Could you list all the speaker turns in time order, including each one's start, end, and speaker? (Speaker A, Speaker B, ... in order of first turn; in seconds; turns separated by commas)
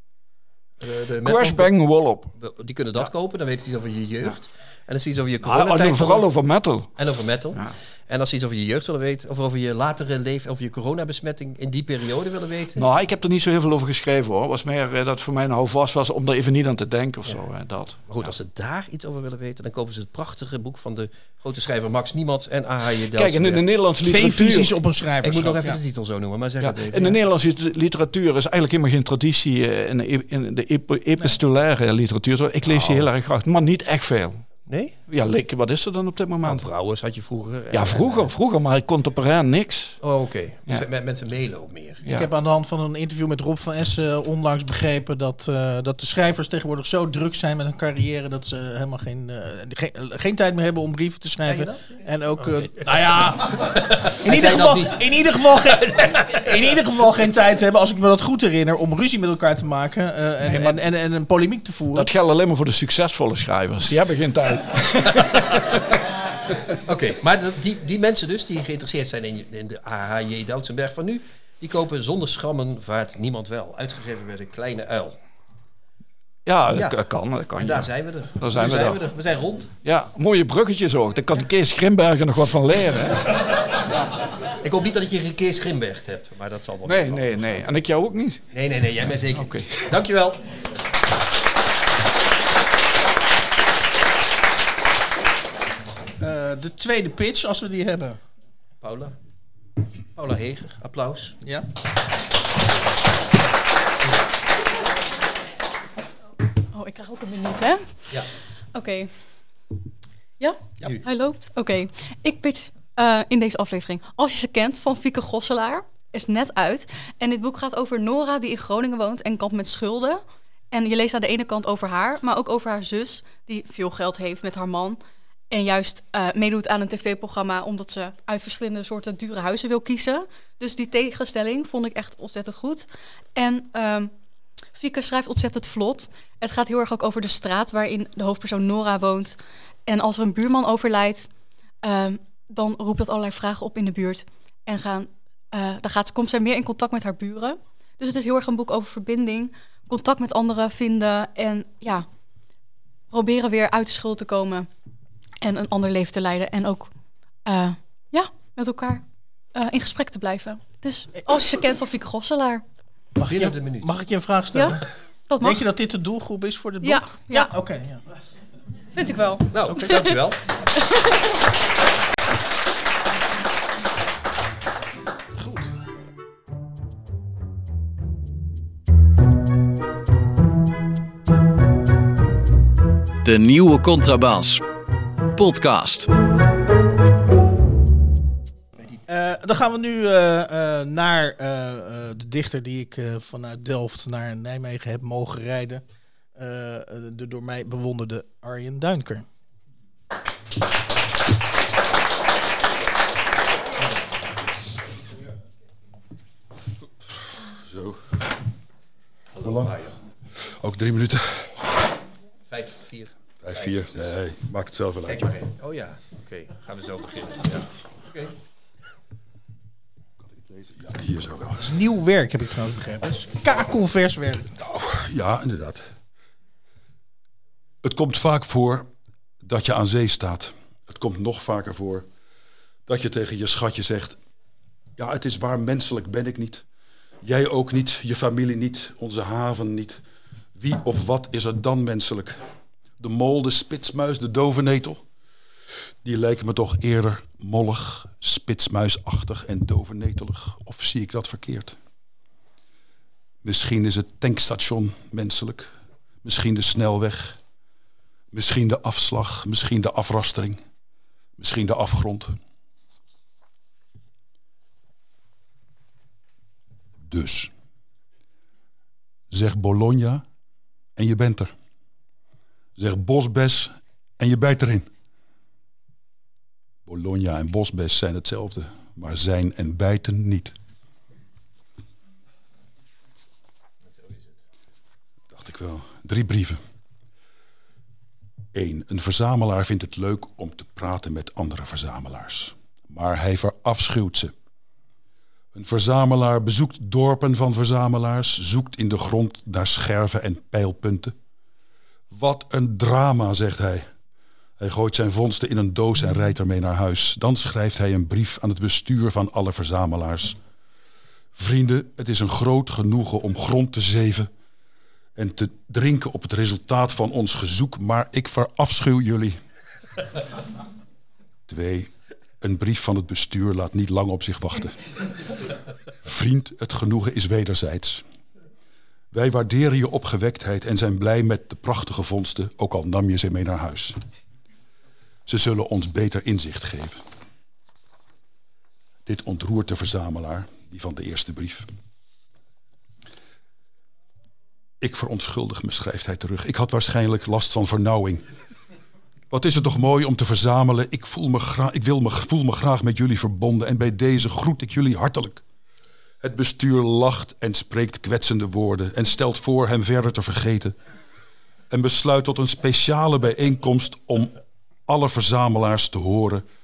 Speaker A: 0.8-1.7, Speaker B: 1.2-2.3, Speaker A: 2.4-6.3, Speaker B: 5.4-6.9, Speaker A: 7.0-12.8, Speaker B: 12.8-18.3, Speaker A: 18.1-23.6, Speaker B: 23.1-24.7, Speaker C: 24.0-25.8, Speaker A: 25.2-27.2, Speaker B: 26.6-34.5, Speaker A: 32.6-33.1, Speaker A: 34.7-35.0, Speaker B: 35.1-36.7, Speaker A: 36.4-38.3, Speaker B: 37.7-40.0, Speaker A: 40.0-42.0, Speaker C: 42.0-53.7, Speaker A: 51.5-56.7, Speaker C: 54.2-62.1, Speaker B: 60.5-60.8, Speaker B: 62.0-65.8, Speaker A: 65.0-66.0, Speaker A: 66.8-75.2, Speaker B: 76.5-79.0, Speaker A: 76.7-77.0, Speaker A: 77.5-79.7, Speaker B: 79.8-83.3, Speaker A: 84.6-87.7, Speaker B: 86.8-88.4, Speaker A: 88.5-90.5, Speaker B: 89.3-89.9, Speaker C: 96.2-98.2, Speaker A: 98.8-99.1, Speaker A: 100.2-101.4, Speaker D: 106.7-108.2, Speaker D: 108.7-109.1, Speaker D: 110.4-134.1, Speaker D: 134.7-141.3, Speaker D: 141.8-152.1, Speaker D: 153.1-154.7, Speaker D: 155.4-156.9, Speaker D: 157.4-162.6, Speaker C: 163.2-164.8, Speaker A: 163.3-163.9, Speaker D: 164.5-165.6, Speaker C: 165.4-168.0, Speaker D: 166.8-167.5, Speaker D: 168.9-170.2, Speaker A: 169.5-170.4, Speaker C: 169.7-170.0, Speaker E: 183.2-184.6, Speaker E: 185.3-186.1, Speaker C: 189.1-195.8, Speaker C: 196.3-199.2, Speaker F: 207.6-208.0, Speaker A: 209.3-209.9, Speaker F: 209.4-209.8, Speaker F: 210.3-211.5, Speaker A: 212.5-214.1, Speaker F: 213.4-215.3, Speaker A: 215.1-218.3, Speaker F: 220.2-221.8, Speaker C: 221.6-224.5, Speaker F: 224.6-225.8, Speaker F: 227.8-228.9, Speaker F: 229.4-232.1, Speaker F: 232.9-234.2, Speaker F: 235.0-236.6, Speaker F: 237.2-240.0, Speaker F: 240.5-242.4, Speaker F: 243.0-245.0, Speaker F: 246.0-251.8, Speaker F: 253.4-257.4, Speaker F: 258.3-260.6, Speaker F: 261.4-262.4, Speaker F: 267.0-267.5, Speaker F: 269.3-270.2, Speaker F: 270.9-271.5, Speaker F: 272.8-274.9, Speaker F: 276.9-280.5, Speaker F: 285.3-286.6, Speaker F: 288.5-294.3, Speaker F: 295.5-301.1, Speaker F: 302.1-303.9, Speaker F: 304.6-310.4, Speaker F: 311.3-314.3, Speaker F: 315.1-319.4, Speaker F: 321.5-324.9, Speaker F: 326.0-328.0, Speaker F: 329.1-334.0, Speaker F: 335.2-337.0, Speaker F: 339.1-341.7, Speaker F: 344.8-348.2, Speaker F: 349.3-355.4, Speaker F: 356.2-360.7, Speaker F: 361.7-364.4, Speaker F: 364.9-366.4